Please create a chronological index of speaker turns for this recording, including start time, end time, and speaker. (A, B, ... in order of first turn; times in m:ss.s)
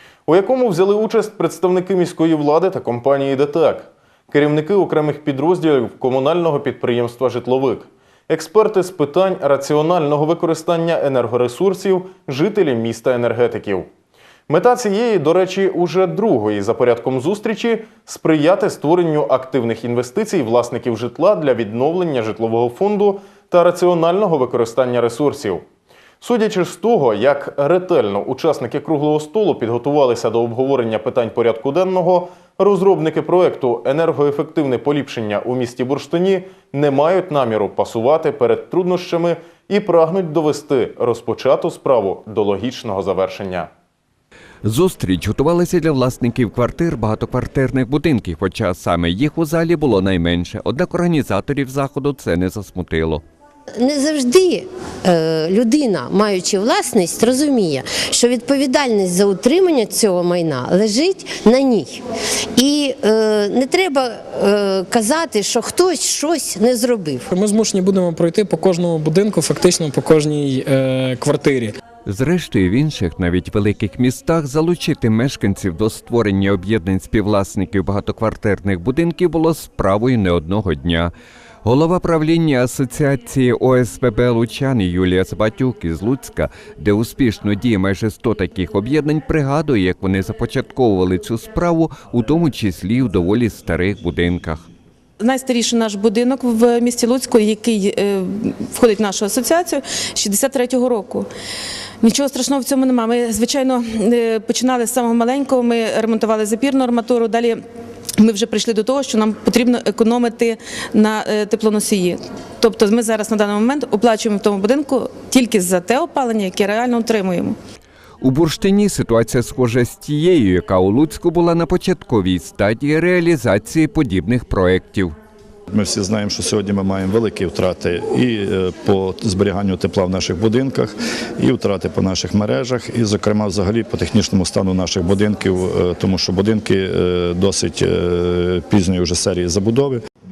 0:00.3-0:13.9 A
0:14.5-0:25.6 A
0:26.2-0:43.7 A
0:44.6-0:53.2 B
0:53.8-1:02.0 C
1:02.6-1:07.2 C
1:07.3-1:11.7 D
1:12.0-1:21.1 B
1:21.6-1:34.6 B
1:35.2-1:41.3 E
1:42.0-1:47.6 E
1:48.2-1:57.6 E
1:58.2-2:05.1 B
2:05.7-2:20.0 F